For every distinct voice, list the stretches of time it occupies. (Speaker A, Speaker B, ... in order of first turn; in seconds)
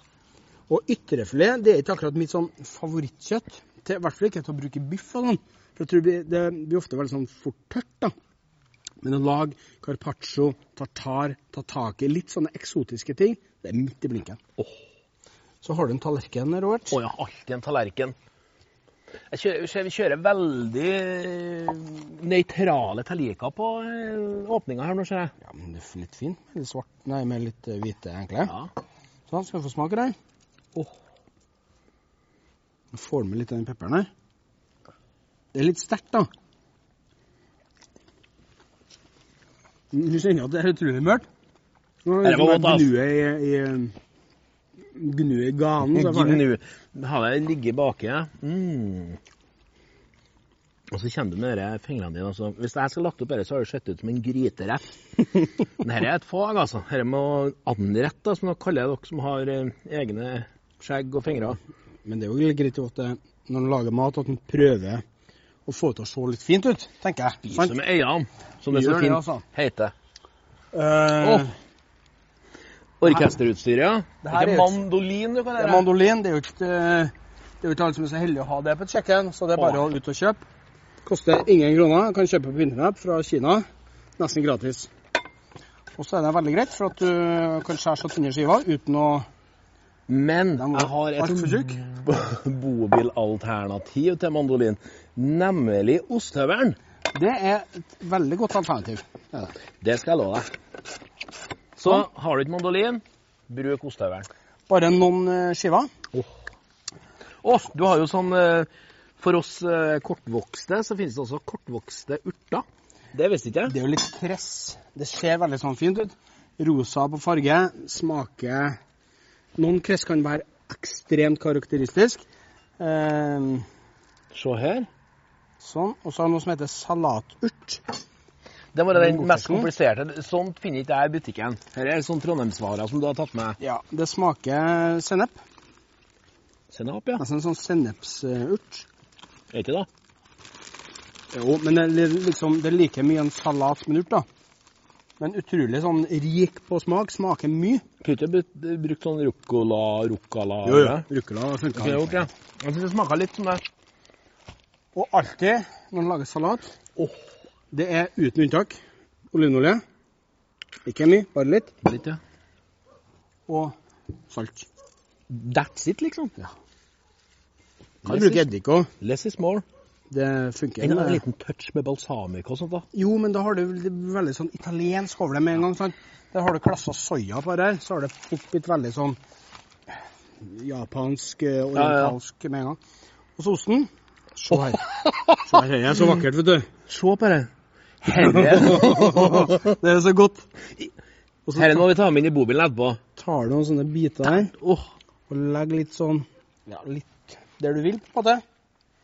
Speaker A: 0.7-8.1, 9.0-14.4, 15.6-17.0, 25.4-28.5, 29.3-30.1, 32.9-34.1, 35.5-36.3, 39.9-41.3, 42.0-44.0, 44.9-46.4, 62.1-65.0, 65.7-67.8, 68.7-69.4, 70.7-71.5, 74.2-74.8, 75.6-80.4, 81.0-83.6, 84.2-84.9, 86.0-89.2, 90.6-91.9, 97.1-99.5, 104.7-105.9, 113.7-118.8, 119.6-122.2, 122.8-123.7, 125.6-127.8, 128.9-129.7, 133.6-135.4, 137.2-138.9, 141.3-144.2, 145.2-147.8, 150.6-152.3, 154.9-156.7, 157.7-158.8, 159.3-159.8, 160.9-161.7, 163.5-163.7, 164.3-164.7, 168.0-168.9, 170.1-171.2, 172.9-179.2, 180.4-182.8, 183.4-184.9, 185.4-186.7, 188.2-190.5, 191.5-191.8, 193.2-194.5, 195.3-198.4
Speaker B: 16.9-18.1, 19.3-25.3, 42.2-42.9, 45.9-49.2, 50.9-61.6, 67.5-69.9, 71.2-71.5, 73.0-75.9, 90.1-96.8, 99.8-100.5, 101.8-104.3, 107.4-113.8, 124.3-124.9, 128.7-133.6, 136.7-137.2, 139.5-139.9, 148.0-151.1, 151.8-153.6, 161.8-162.2, 165.3-166.3, 168.1-168.5, 169.0-169.7, 170.8-172.8, 181.8-182.2, 184.9-185.3, 186.9-187.5, 188.0-189.7, 191.6-193.0, 194.3-194.9